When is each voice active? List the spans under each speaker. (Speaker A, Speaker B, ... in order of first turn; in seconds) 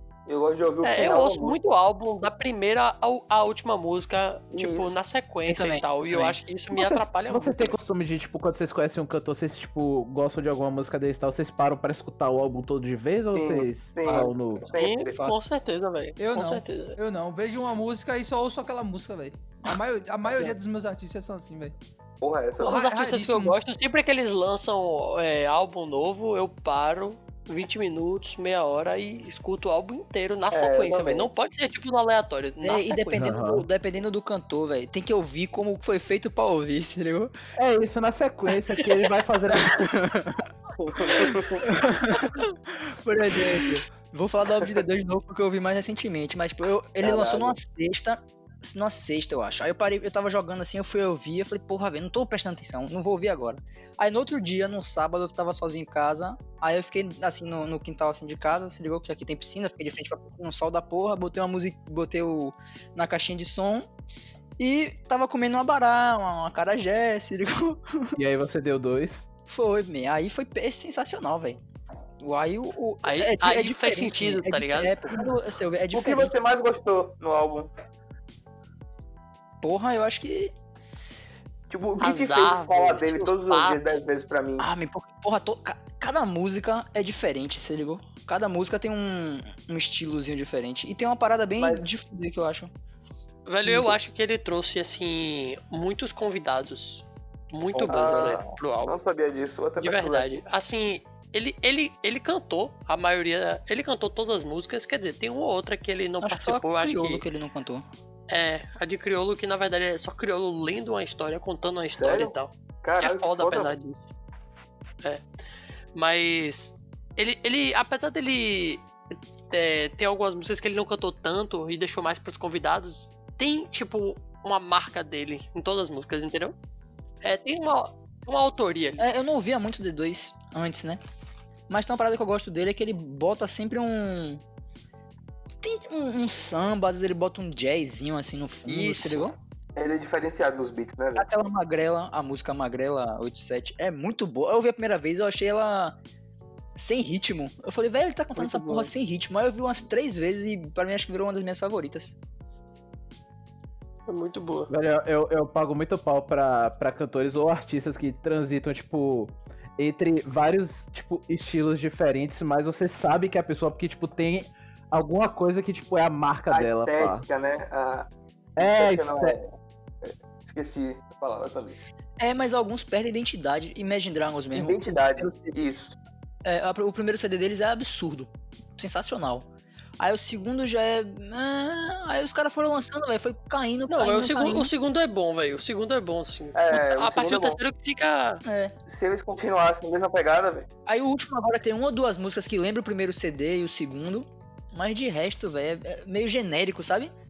Speaker A: 0.3-1.6, 4.5-4.9, 13.3-15.2, 22.2-22.8, 30.5-31.3, 40.8-41.7, 47.0-47.5, 75.9-77.7, 81.7-84.7, 91.6-91.8, 97.9-100.3, 112.0-113.7, 139.8-141.3, 166.5-169.5, 170.0-171.8, 174.5-175.9, 186.5-187.6, 188.9-190.7
Speaker B: 0.8-7.8, 14.7-17.0, 22.6-33.3, 73.0-75.0, 82.0-83.9, 93.5-99.0, 99.8-107.2, 108.3-114.0, 115.9-118.9, 119.5-126.5, 127.2-129.0, 138.7-139.2, 148.3-148.8, 154.1-154.7, 183.9-188.4
Speaker C: 5.5-6.4, 32.6-37.3, 39.7-40.4, 41.6-63.9, 64.6-68.2, 69.5-71.6, 72.2-76.3, 79.6-80.5, 84.6-92.7, 97.7-98.4, 106.2-107.8, 129.0-131.0, 131.7-134.4, 135.6-139.3, 141.1-146.0, 146.7-152.2, 172.2-175.6, 176.4-179.5, 180.0-184.7, 188.4-188.7, 190.8-197.1
Speaker D: 6.7-14.7, 33.2-33.6, 37.6-40.0, 68.2-69.3, 154.7-167.2, 168.6-169.4
Speaker E: 16.2-21.7, 22.6-23.6